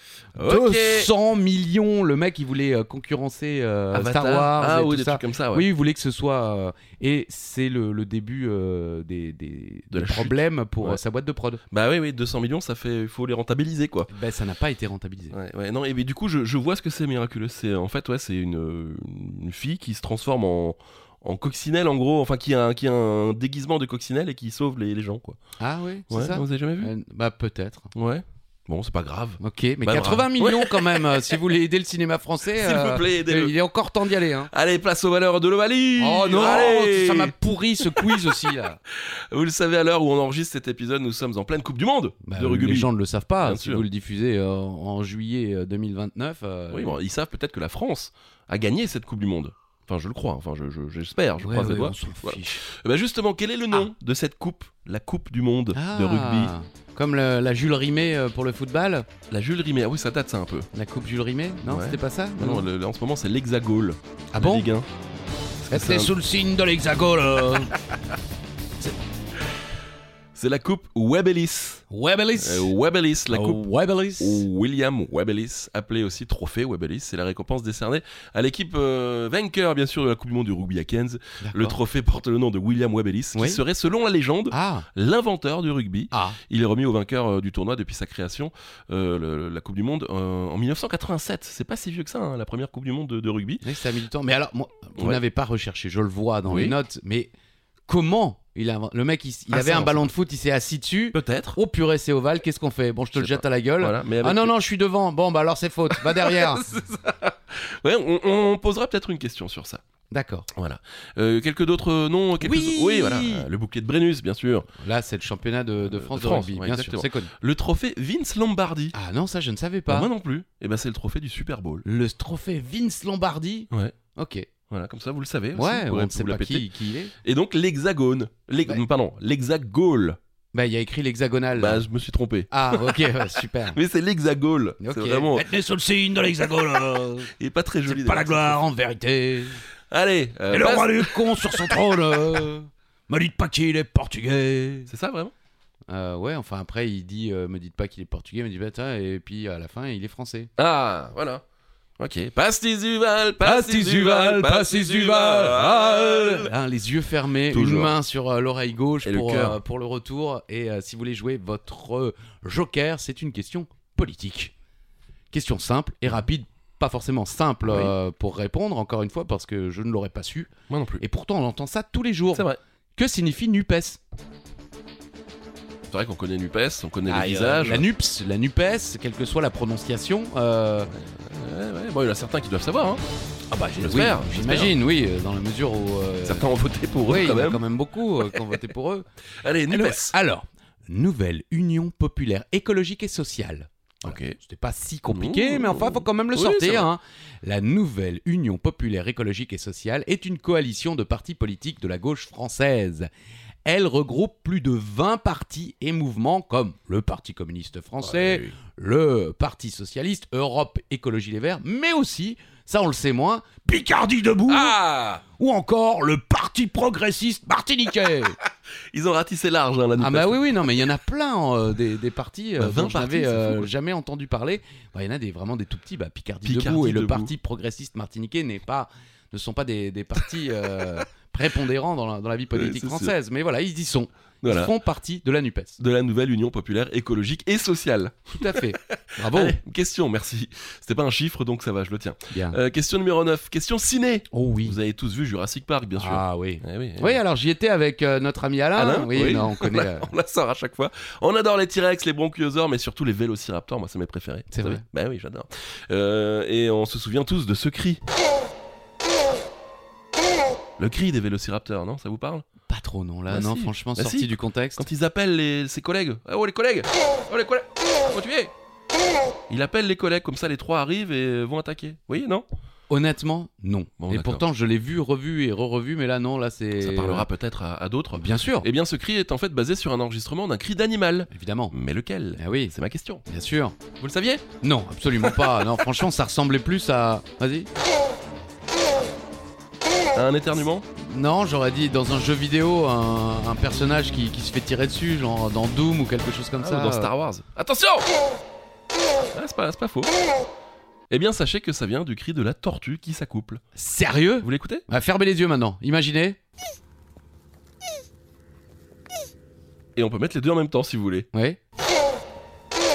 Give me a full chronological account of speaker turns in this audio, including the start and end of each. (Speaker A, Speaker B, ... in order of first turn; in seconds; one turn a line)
Speaker A: 0.4-1.1
Speaker B: 0.4-11.6
Speaker A: 3.9-5.7
Speaker A: 9.9-11.0
Speaker A: 11.7-14.1
Speaker B: 14.1-15.3
Speaker A: 15.3-25.4
Speaker B: 25.6-27.9
Speaker A: 26.1-26.9
Speaker A: 27.9-31.0
Speaker B: 29.4-34.5
Speaker A: 32.5-33.5
Speaker A: 34.5-37.3
Speaker B: 36.0-38.8
Speaker A: 38.9-42.9
Speaker B: 42.2-47.0
Speaker A: 43.4-43.8
Speaker A: 46.7-56.5
Speaker B: 51.4-52.6
Speaker B: 55.7-59.1
Speaker A: 59.3-60.7
Speaker B: 60.7-62.7
Speaker A: 61.6-64.9
Speaker B: 64.3-64.7
Speaker A: 65.6-66.1
Speaker B: 65.7-67.7
Speaker A: 70.3-71.8
Speaker B: 71.9-72.7
Speaker A: 72.4-73.6
Speaker B: 73.3-74.5
Speaker A: 74.2-93.6
Speaker B: 81.4-81.8
Speaker B: 83.3-83.6
Speaker B: 84.5-84.9
Speaker B: 86.1-86.4
Speaker B: 93.6-97.3
Speaker A: 96.5-96.7
Speaker B: 97.9-106.7
Speaker A: 99.5-100.0
Speaker A: 101.1-101.6
Speaker A: 103.2-104.5
Speaker A: 105.9-109.8
Speaker B: 110.1-110.5
Speaker A: 110.5-114.7
Speaker B: 112.4-113.5
Speaker B: 114.8-117.3
Speaker A: 115.9-118.9
Speaker B: 118.9-120.1
Speaker A: 119.9-121.8
Speaker B: 121.8-124.5
Speaker A: 124.7-126.7
Speaker B: 125.5-127.1
Speaker A: 127.2-130.2
Speaker B: 130.5-131.8
Speaker A: 131.6-135.5
Speaker B: 132.5-133.8
Speaker B: 134.8-137.3
Speaker A: 137.4-138.6
Speaker B: 137.9-139.6
Speaker A: 139.9-141.8
Speaker B: 140.5-144.9
Speaker A: 144.9-145.3
Speaker B: 145.9-150.5
Speaker A: 150.6-151.4
Speaker A: 152.0-156.5
Speaker B: 153.4-164.5
Speaker A: 157.5-157.9
Speaker A: 159.0-159.6
Speaker B: 165.3-174.0
Speaker A: 167.7-167.9
Speaker A: 170.7-171.0
Speaker A: 172.3-172.6
Speaker A: 175.9-177.9
Speaker B: 177.1-180.9
Speaker A: 180.9-183.0
Speaker B: 183.5-186.4
Speaker A: 183.8-184.7
Speaker A: 186.2-187.6
Speaker B: 187.1-189.1
Speaker A: 189.4-190.1
Speaker B: 189.7-203.1
Speaker A: 194.0-194.4
Speaker A: 195.1-196.9
Speaker B: 203.6-214.8
Speaker A: 208.0-208.5
Speaker A: 214.5-215.2
Speaker B: 215.4-218.4
Speaker A: 218.9-220.7
Speaker B: 220.0-235.8
Speaker A: 222.6-223.7
Speaker A: 226.4-227.3
Speaker A: 232.5-233.1
Speaker A: 234.4-234.7
Speaker A: 235.8-247.2
Speaker B: 238.4-239.6
Speaker B: 242.3-242.6
Speaker B: 244.3-244.8
Speaker B: 246.0-250.1
Speaker A: 248.8-258.0
Speaker B: 254.5-254.8
Speaker A: 260.8-262.4
Speaker B: 262.7-264.8
Speaker A: 263.3-268.5
Speaker A: 269.5-272.4
Speaker B: 272.9-277.3
Speaker A: 274.0-274.4
Speaker A: 276.8-283.2
Speaker B: 278.1-278.7
Speaker B: 281.3-281.7
Speaker B: 282.4-282.7
Speaker B: 283.2-283.8
Speaker A: 284.0-284.4
Speaker B: 284.6-287.7
Speaker A: 290.1-290.8
Speaker B: 290.9-297.1
Speaker A: 296.6-298.1
Speaker A: 299.3-300.1
Speaker A: 301.1-303.6
Speaker B: 303.7-306.4
Speaker A: 304.4-304.8
Speaker A: 309.9-311.3
Speaker B: 311.3-311.6